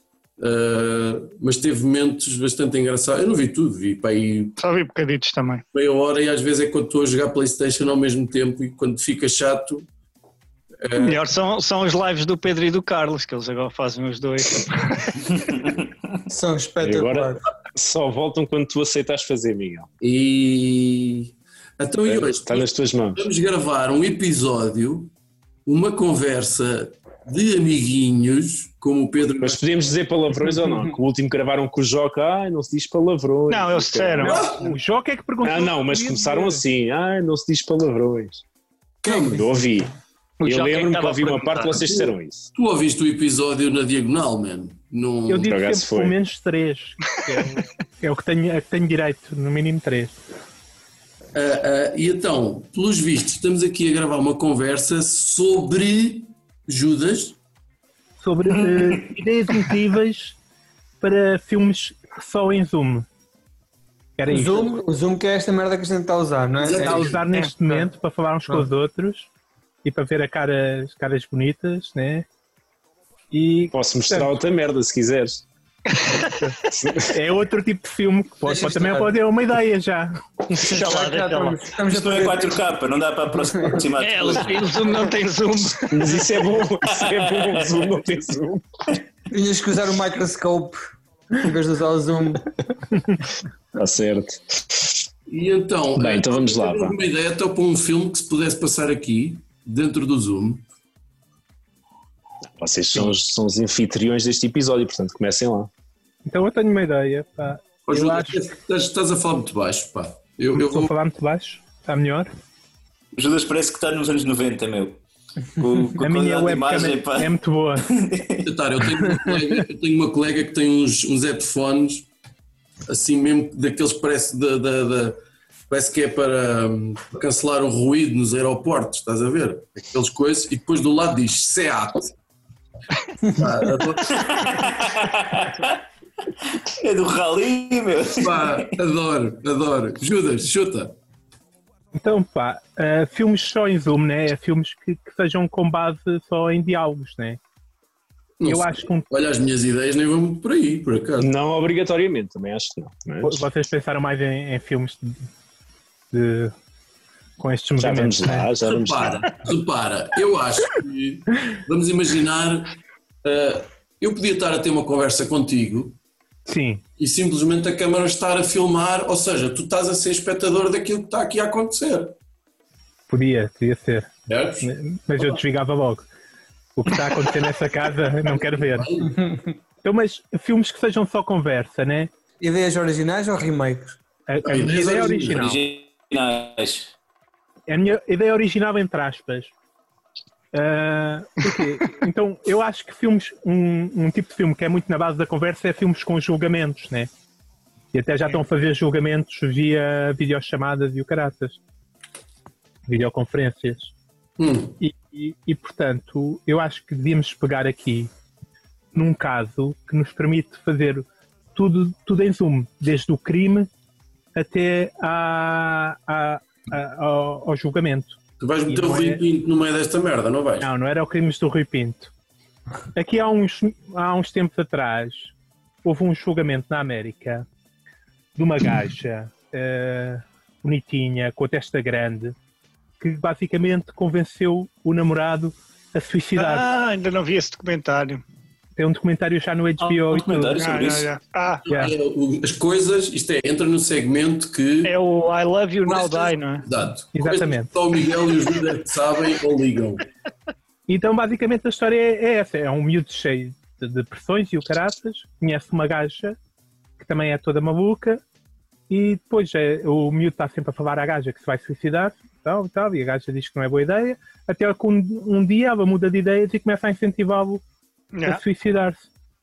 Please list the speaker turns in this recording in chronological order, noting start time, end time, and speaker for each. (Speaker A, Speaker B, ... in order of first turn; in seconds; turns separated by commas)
Speaker A: 0.4-4.5, Speaker B: 4.6-5.6, Speaker A: 5.7-9.9, Speaker A: 10.8-11.2, Speaker B: 10.9-15.3, Speaker C: 16.3-17.4, Speaker D: 16.8-19.9, Speaker A: 20.0-25.1, Speaker D: 22.1-23.2, Speaker A: 25.6-29.6, Speaker D: 29.4-34.4, Speaker B: 33.5-34.4, Speaker A: 34.2-34.7, Speaker E: 34.3-36.6, Speaker D: 35.4-38.4, Speaker D: 39.0-39.9, Speaker A: 39.0-39.4, Speaker B: 40.4-41.9, Speaker D: 40.4-42.5, Speaker A: 41.9-45.5, Speaker E: 45.3-50.1, Speaker D: 45.4-46.1, Speaker A: 51.3-57.4, Speaker E: 58.2-60.4, Speaker F: 58.7-59.0, Speaker E: 61.0-63.0, Speaker E: 64.2-64.7, Speaker C: 64.3-67.1, Speaker A: 66.6-67.2, Speaker E: 66.8-69.3, Speaker B: 67.3-67.9, Speaker E: 69.8-72.2, Speaker E: 73.3-74.3, Speaker D: 73.7-75.4, Speaker B: 75.9-76.3, Speaker E: 76.3-80.2, Speaker D: 76.7-77.1, Speaker C: 78.5-79.2, Speaker C: 80.5-82.6, Speaker B: 80.6-81.6, Speaker F: 81.9-85.0, Speaker C: 83.4-83.8, Speaker B: 84.0-86.2, Speaker D: 85.9-88.6, Speaker F: 86.8-87.7, Speaker C: 89.3-92.5, Speaker D: 93.7-95.0, Speaker A: 95.3-100.6, Speaker D: 96.0-97.0, Speaker D: 102.6-105.7, Speaker E: 106.2-108.4, Speaker A: 107.9-110.9, Speaker E: 110.6-112.3, Speaker F: 113.1-115.0, Speaker F: 115.6-117.3, Speaker E: 116.0-118.0, Speaker F: 117.8-118.5, Speaker A: 118.4-122.1, Speaker A: 122.9-125.2, Speaker A: 125.7-132.1, Speaker A: 133.3-134.7, Speaker F: 134.1-135.8, Speaker F: 136.5-138.7, Speaker A: 138.2-140.9, Speaker E: 141.9-147.4, Speaker A: 148.4-151.3, Speaker E: 148.4-149.1, Speaker D: 151.2-153.4, Speaker E: 153.2-155.2, Speaker E: 156.1-156.5, Speaker E: 157.4-158.5, Speaker D: 157.8-159.3, Speaker A: 158.7-165.9, Speaker E: 166.5-166.8, Speaker A: 167.0-172.1, Speaker E: 173.1-174.1, Speaker A: 174.3-175.3, Speaker E: 174.6-176.1, Speaker E: 176.8-178.9, Speaker A: 178.2-179.1, Speaker E: 179.8-182.1, Speaker C: 182.4-184.0, Speaker E: 184.3-185.6, Speaker A: 184.4-185.4, Speaker F: 185.2-186.9, Speaker E: 187.7-189.5, Speaker E: 190.5-197.1, Speaker E: 197.9-201.6, Speaker E: 202.9-203.9, Speaker A: 204.4-204.8, Speaker E: 204.8-208.1, Speaker E: 208.9-213.7, Speaker E: 214.3-219.2, Speaker A: 218.4-220.7, Speaker E: 220.6-222.1, Speaker E: 222.9-225.3, Speaker E: 225.8-227.4, Speaker E: 228.3-232.3, Speaker E: 233.0-236.7, Speaker B: 236.3-238.2, Speaker E: 238.8-240.7, Speaker F: 240.1-241.1, Speaker B: 240.6-241.7, Speaker A: 241.7-244.9, Speaker E: 241.7-241.9, Speaker B: 244.8-246.7, Speaker A: 245.8-250.0, Speaker E: 247.1-247.7, Speaker E: 250.9-256.4, Speaker E: 257.0-258.2, Speaker E: 258.9-267.6, Speaker B: 268.1-268.4, Speaker E: 268.2-269.1